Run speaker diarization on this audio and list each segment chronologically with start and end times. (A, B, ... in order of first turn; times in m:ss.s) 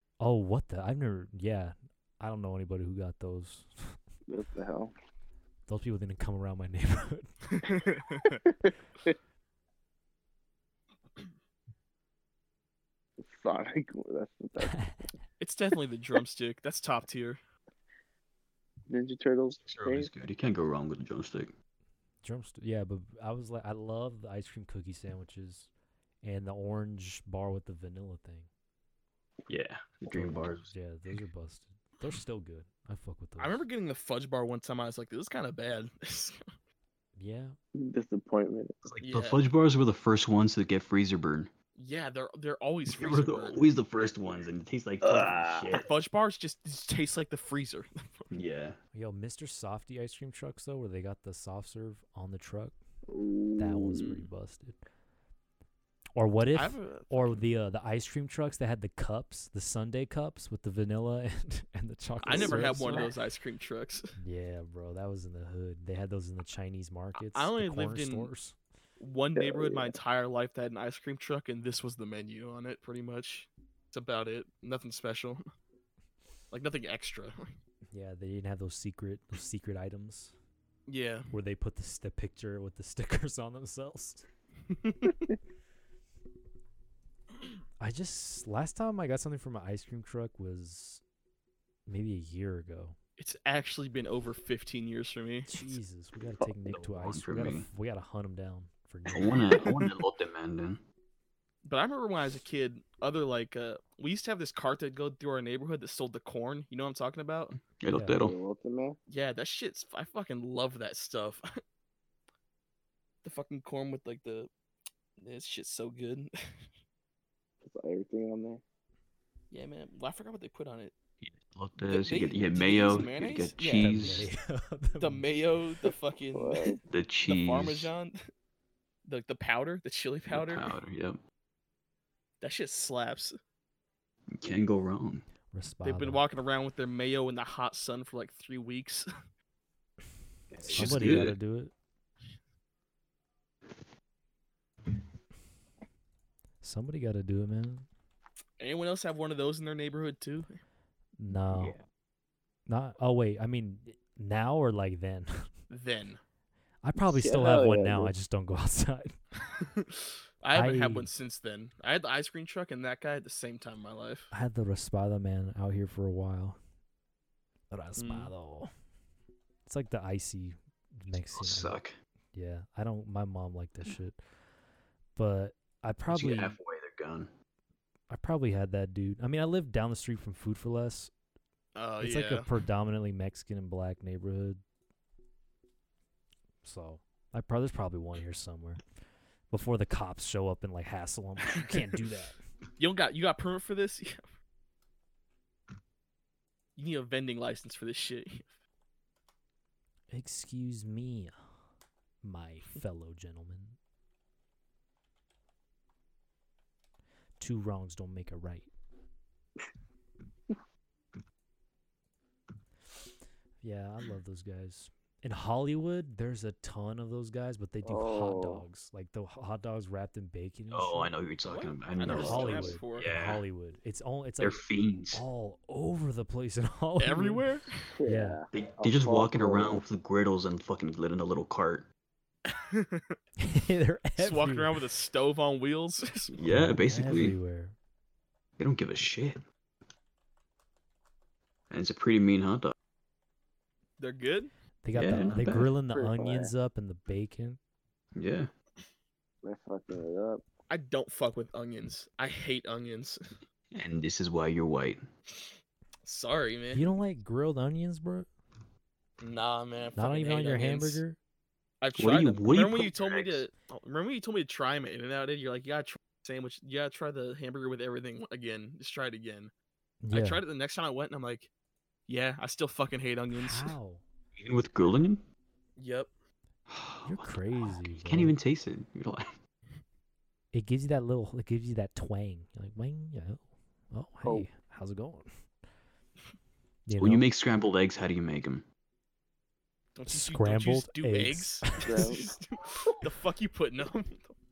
0:00.2-0:04.0 A
0:04.3-0:04.9 B
0:05.7-0:07.3 A
0:07.6-0:08.4 C
0:08.5-0:09.1 B
0:13.2-0:14.8 B
0:14.6-0:15.1 A
0:15.4-0:17.4 C
0:18.9-0:20.1 B
0:19.6-0:21.5 D
0:22.2-0:25.7 A
0:26.2-0:28.5 A
0:29.5-0:30.7 D
0:30.1-0:33.6 A
0:33.4-0:36.4 C
0:37.2-0:37.6 A
0:37.8-0:38.8 B
0:38.8-0:41.5 D
0:39.0-0:39.4 C
0:41.8-0:43.6 C
0:42.9-0:45.9 D
0:45.0-0:45.8 B
0:45.7-0:48.3 C
0:48.3-0:48.8 D
0:48.9-0:52.8 A
0:53.1-0:54.2 B
0:53.6-0:54.8 A
0:56.2-1:03.1 A
0:56.5-0:57.5 C
1:02.2-1:04.2 C
1:02.3-1:03.1 B
1:04.2-1:08.6 A
1:07.2-1:08.3 C
1:09.0-1:15.4 C
1:09.4-1:10.0 B
1:16.5-1:17.6 C
1:17.9-1:20.3 A
1:20.9-1:21.3 C
1:21.3-1:24.3 A
1:24.8-1:25.3 C
1:27.8-1:31.0 A
1:31.9-1:33.0 A
1:33.2-1:35.8 C
1:35.5-1:39.5 A
1:36.7-1:37.7 D
1:39.1-1:40.8 D
1:39.6-1:39.9 C
1:41.6-1:47.6 C
1:47.8-1:48.4 D
1:47.9-1:48.2 A
1:48.2-1:49.0 B
1:49.1-1:51.4 C
1:53.2-1:54.5 C
1:55.2-1:56.6 C
1:57.6-1:58.6 B
1:59.5-2:01.0 C
2:01.2-2:04.3 D
2:01.8-2:04.0 C
2:03.8-2:05.3 A
2:05.0-2:08.2 C
2:06.3-2:06.8 B
2:06.9-2:07.9 D
2:09.0-2:10.8 C
2:10.3-2:11.2 D
2:12.4-2:13.4 C
2:14.4-2:15.3 D
2:15.5-2:16.2 A
2:15.8-2:19.1 C
2:20.5-2:21.4 D
2:20.7-2:21.7 A
2:26.6-2:27.9 A
2:28.6-2:30.6 C
2:31.2-2:31.8 A
2:31.5-2:31.9 D
2:32.7-2:35.5 A
2:35.7-2:36.2 C
2:36.8-2:39.1 A
2:37.0-2:38.1 B
2:39.6-2:44.3 C
2:40.5-2:41.1 A
2:44.3-2:46.6 A
2:47.7-2:48.7 A
2:48.0-2:48.3 C
2:49.7-2:51.8 A
2:51.3-2:52.0 D
2:52.3-2:54.2 A
2:55.2-2:56.6 A
2:56.1-2:57.3 D
2:58.1-3:01.1 A
3:01.8-3:02.5 C
3:02.0-3:04.6 A
3:06.6-3:08.8 A
3:09.5-3:12.4 A
3:11.5-3:11.8 C
3:12.8-3:14.2 C
3:16.8-3:18.5 C
3:20.1-3:21.4 A
3:22.2-3:23.8 A
3:27.4-3:28.7 A
3:33.6-3:41.1 A
3:37.8-3:38.6 B
3:40.7-3:43.4 D
3:41.5-3:43.1 C
3:42.1-3:44.6 A
3:42.1-3:42.8 B
3:44.4-3:45.2 D
3:45.1-3:47.4 A
3:47.0-3:47.7 C
3:48.0-3:49.8 B
3:48.1-3:48.4 A
3:48.5-3:51.9 D
3:52.5-3:53.2 C
3:53.4-3:54.7 A
3:54.2-3:56.4 C
3:56.4-3:57.4 D
3:56.5-3:57.8 A
3:58.6-3:59.4 D
4:01.7-4:02.7 D
4:04.0-4:04.5 C
4:04.8-4:07.6 A
4:05.0-4:05.7 D
4:05.9-4:06.5 B
4:08.2-4:08.5 D
4:09.4-4:10.4 B
4:10.7-4:13.2 C
4:13.7-4:15.0 D
4:16.0-4:16.9 C
4:16.7-4:18.3 A
4:19.2-4:21.0 C
4:20.0-4:21.2 A
4:21.8-4:29.5 C
4:22.0-4:23.4 D
4:30.0-4:30.4 A
4:30.1-4:31.5 C
4:32.1-4:33.7 C
4:33.3-4:34.0 A
4:34.4-4:35.2 D
4:35.8-4:36.1 C
4:36.7-4:39.3 D
4:37.1-4:38.4 A
4:40.5-4:45.3 A
4:46.9-4:47.2 A
4:47.0-4:48.6 D
4:50.0-4:54.4 C
4:50.1-4:52.1 A
4:51.8-4:52.4 B